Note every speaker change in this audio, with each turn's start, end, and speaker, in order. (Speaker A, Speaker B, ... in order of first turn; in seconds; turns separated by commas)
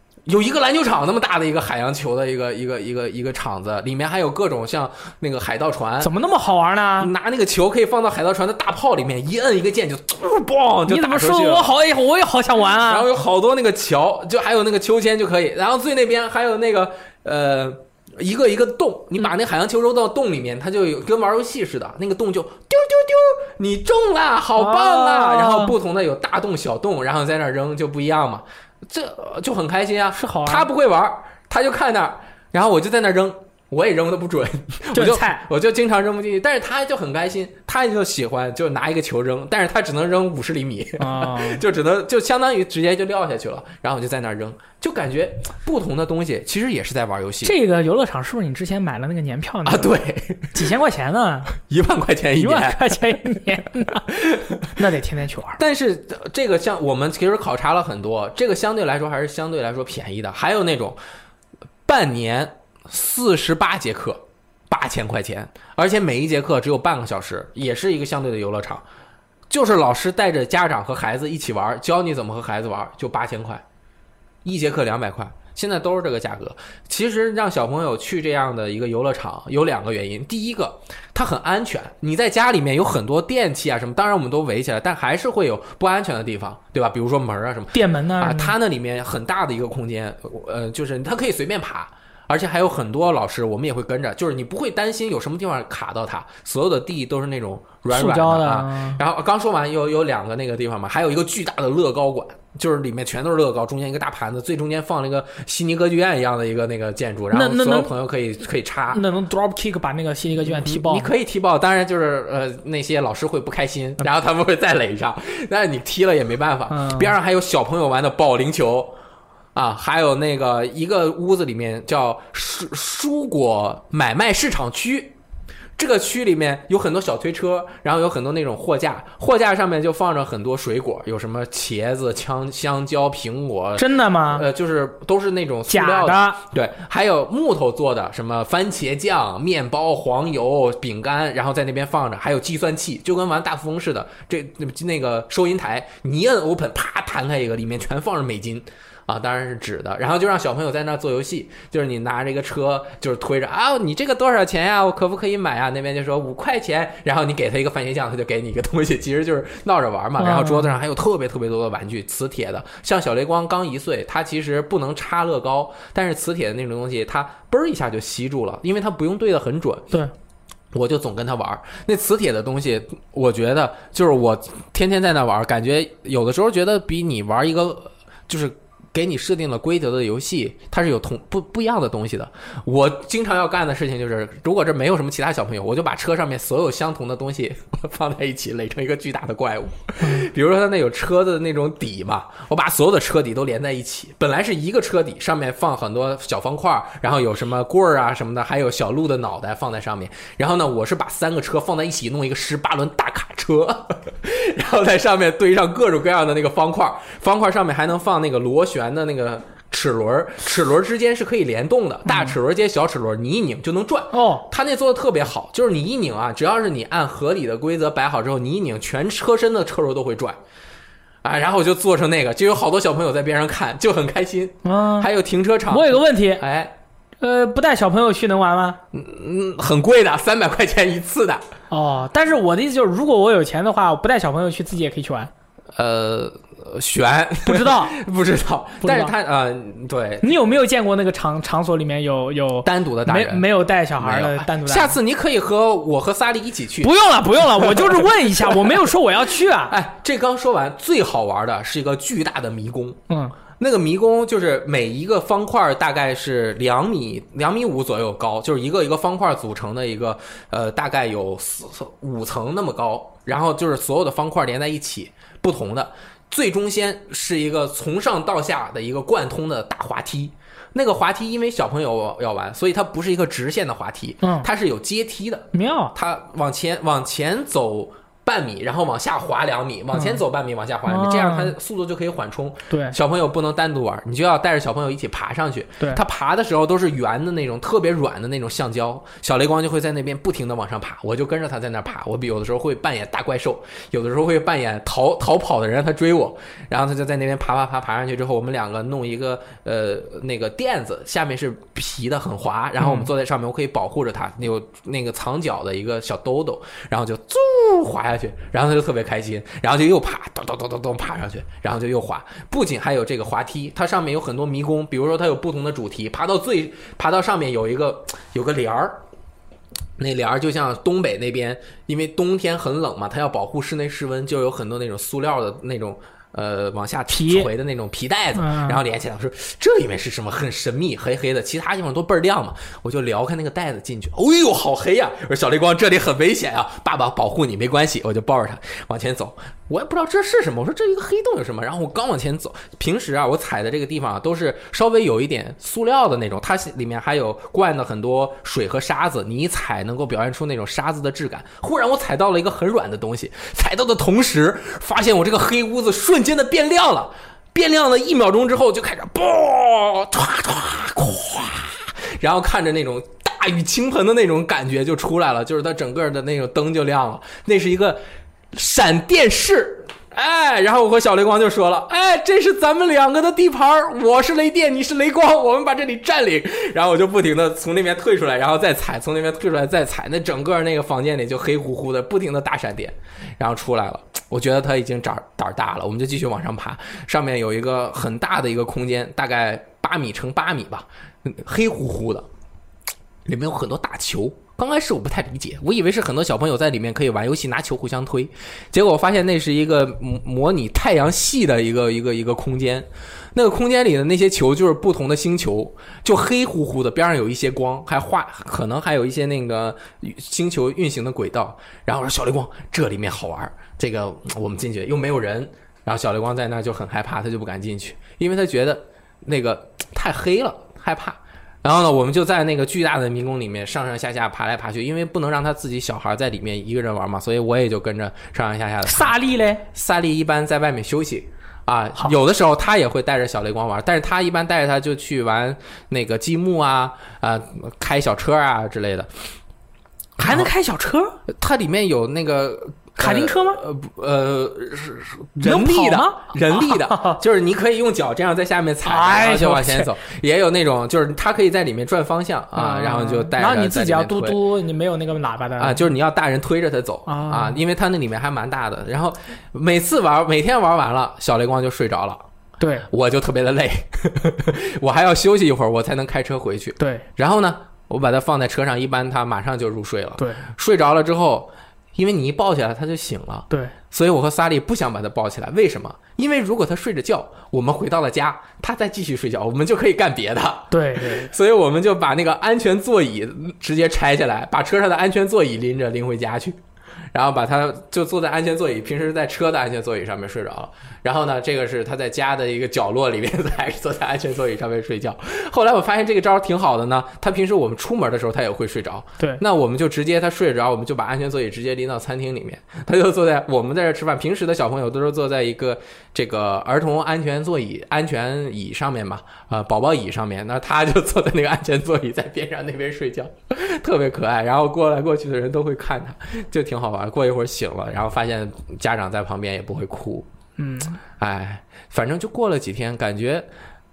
Speaker A: 0.2-6.1, Speaker B: 6.0-7.1, Speaker A: 7.0-11.8, Speaker B: 10.9-13.1, Speaker A: 12.8-47.5, Speaker B: 24.6-25.8, Speaker B: 30.1-30.7, Speaker B: 34.9-35.4, Speaker B: 41.0-41.6, Speaker B: 47.4-49.9, Speaker A: 49.6-50.6, Speaker B: 50.5-51.5, Speaker A: 51.6-53.1, Speaker B: 52.4-54.1, Speaker A: 54.0-54.7, Speaker B: 54.7-55.6, Speaker A: 55.6-61.0, Speaker A: 61.8-68.8, Speaker A: 69.5-73.6, Speaker A: 74.4-109.0, Speaker B: 87.7-88.5, Speaker B: 97.9-99.0, Speaker B: 107.3-107.9, Speaker B: 108.9-111.1, Speaker A: 110.4-118.9, Speaker B: 116.7-117.1, Speaker A: 119.5-125.2, Speaker A: 125.8-169.9, Speaker B: 133.8-134.5, Speaker B: 135.7-136.4, Speaker B: 160.2-160.8, Speaker A: 170.7-220.4, Speaker B: 190.0-190.3, Speaker B: 212.1-212.3, Speaker B: 214.1-214.5, Speaker A: 221.2-226.7, Speaker B: 224.6-225.1, Speaker B: 225.7-226.4, Speaker B: 227.2-228.8, Speaker A: 228.9-231.4, Speaker B: 231.7-235.3, Speaker A: 235.8-240.3, Speaker B: 237.4-238.0, Speaker B: 238.8-239.1, Speaker B: 240.2-245.0, Speaker A: 242.6-253.0, Speaker B: 246.8-249.8, Speaker B: 253.1-253.3, Speaker A: 253.5-319.0, Speaker B: 274.2-274.5, Speaker B: 275.5-275.9, Speaker B: 279.9-280.2, Speaker B: 280.9-281.5, Speaker B: 282.7-283.0, Speaker B: 302.8-303.1, Speaker A: 320.0-368.0, Speaker B: 327.1-327.5, Speaker B: 328.3-328.8, Speaker A: 368.5-392.3, Speaker A: 393.2-429.1, Speaker B: 428.8-429.6, Speaker A: 429.7-439.1, Speaker B: 440.2-441.2, Speaker A: 441.3-454.4, Speaker B: 443.0-443.6, Speaker B: 445.4-447.2, Speaker B: 448.8-449.9, Speaker B: 452.5-455.9, Speaker A: 455.6-462.2, Speaker B: 457.1-457.6, Speaker B: 462.6-462.9, Speaker A: 462.9-486.6, Speaker B: 466.8-467.1, Speaker B: 470.2-470.5, Speaker B: 480.7-481.3, Speaker A: 487.1-520.3, Speaker B: 520.6-521.0, Speaker A: 521.0-523.5